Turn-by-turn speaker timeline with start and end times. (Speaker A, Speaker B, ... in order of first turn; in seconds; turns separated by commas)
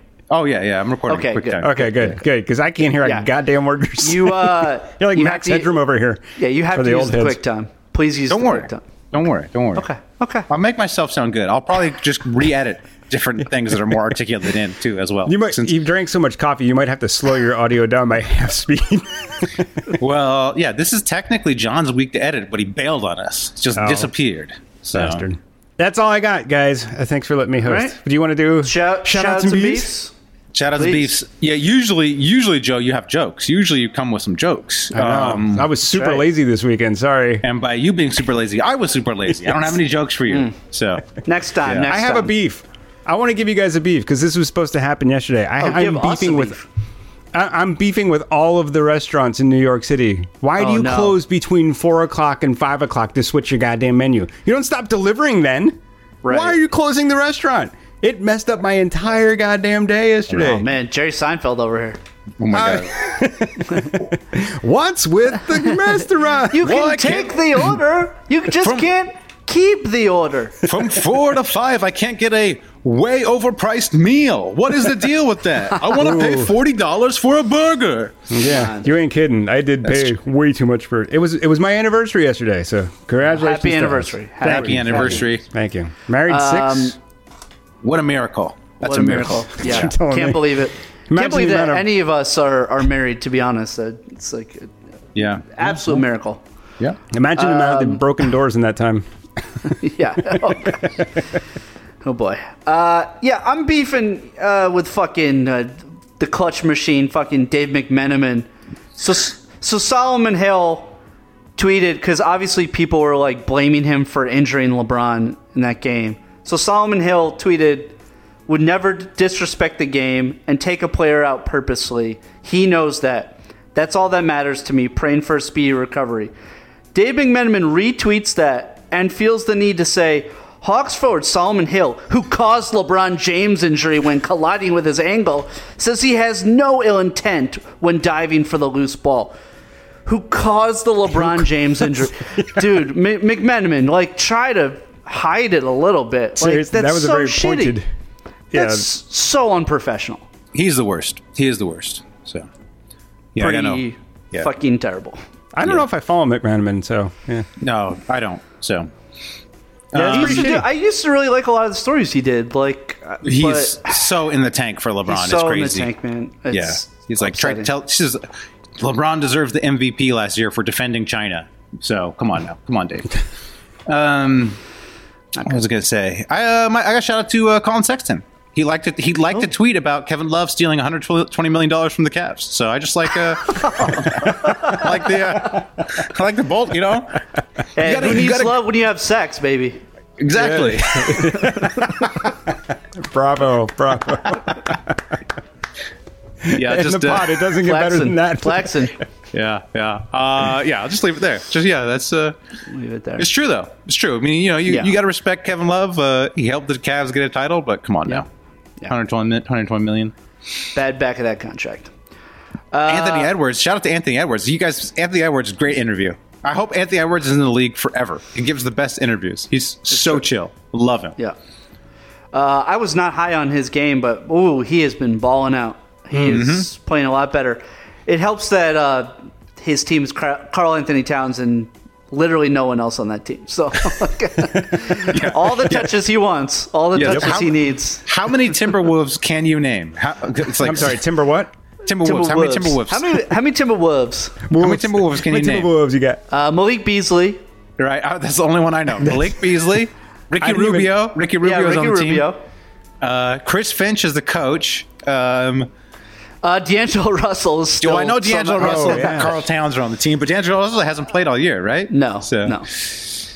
Speaker A: 0.3-2.0, Speaker B: 1.1-1.9, Speaker C: 1.6-7.4, Speaker B: 3.0-3.3, Speaker B: 4.0-5.7, Speaker B: 6.4-8.8, Speaker A: 8.3-9.9, Speaker B: 9.8-10.5, Speaker A: 10.5-15.8, Speaker C: 15.3-19.7, Speaker A: 20.0-25.2, Speaker C: 23.8-24.1, Speaker C: 24.9-29.9, Speaker B: 27.6-28.0, Speaker B: 28.6-30.1, Speaker A: 30.5-35.7, Speaker B: 30.8-31.1, Speaker C: 34.9-37.5, Speaker B: 35.9-36.3, Speaker A: 37.4-41.9, Speaker B: 41.2-42.3, Speaker C: 41.9-46.6, Speaker B: 45.6-46.6, Speaker C: 47.3-60.7, Speaker B: 50.6-51.2, Speaker B: 56.2-56.6, Speaker B: 60.3-62.0, Speaker A: 62.4-62.9, Speaker C: 62.5-66.7, Speaker B: 66.5-70.7, Speaker A: 66.6-67.7, Speaker A: 68.6-68.9, Speaker A: 70.6-78.3, Speaker C: 75.9-76.5, Speaker C: 78.3-87.0, Speaker B: 78.4-78.9, Speaker A: 79.8-80.1, Speaker B: 83.4-85.3, Speaker A: 84.5-85.4, Speaker B: 86.3-87.0, Speaker A: 87.8-89.9, Speaker B: 88.8-94.7, Speaker C: 89.6-91.9, Speaker A: 95.2-95.7, Speaker B: 95.5-96.4, Speaker C: 97.1-99.1, Speaker B: 97.4-98.1, Speaker B: 99.6-101.1, Speaker C: 100.3-100.9, Speaker B: 102.0-111.0, Speaker B: 111.6-118.0, Speaker B: 118.5-126.3, Speaker B: 126.9-139.3, Speaker B: 140.1-147.8, Speaker C: 141.2-141.5, Speaker C: 146.4-147.9, Speaker C: 148.5-148.9, Speaker B: 148.5-150.2, Speaker A: 150.5-152.5, Speaker A: 153.3-154.5, Speaker B: 153.4-155.2, Speaker C: 155.5-157.5, Speaker A: 157.6-158.9, Speaker A: 159.9-160.6, Speaker C: 159.9-160.7, Speaker B: 160.0-164.0, Speaker A: 163.2-165.9, Speaker B: 165.1-167.7, Speaker A: 166.5-168.2, Speaker A: 168.8-173.2, Speaker A: 173.9-174.6, Speaker A: 175.4-187.2, Speaker B: 183.6-184.8, Speaker B: 187.8-189.8, Speaker A: 187.8-188.6, Speaker A: 190.2-191.5, Speaker C: 190.3-195.0, Speaker B: 191.3-192.0, Speaker C: 196.4-198.9, Speaker A: 196.5-197.4, Speaker B: 197.6-199.0, Speaker A: 199.3-202.4, Speaker B: 202.7-203.3, Speaker A: 203.2-208.3, Speaker A: 208.9-210.1, Speaker B: 210.8-211.9, Speaker B: 212.7-213.3, Speaker A: 212.9-221.2, Speaker B: 219.9-220.2, Speaker B: 222.3-238.0, Speaker A: 226.2-226.7, Speaker A: 235.0-235.9, Speaker A: 236.9-241.0, Speaker C: 240.6-241.5, Speaker A: 241.9-243.2, Speaker B: 241.9-244.4, Speaker C: 244.5-246.2, Speaker A: 244.6-245.7, Speaker B: 246.3-247.4, Speaker A: 247.8-252.3, Speaker C: 249.0-249.3, Speaker C: 250.4-250.9, Speaker B: 251.4-252.4, Speaker A: 253.0-255.7, Speaker B: 256.4-259.3, Speaker A: 257.8-263.2, Speaker C: 258.6-259.4, Speaker B: 261.9-262.7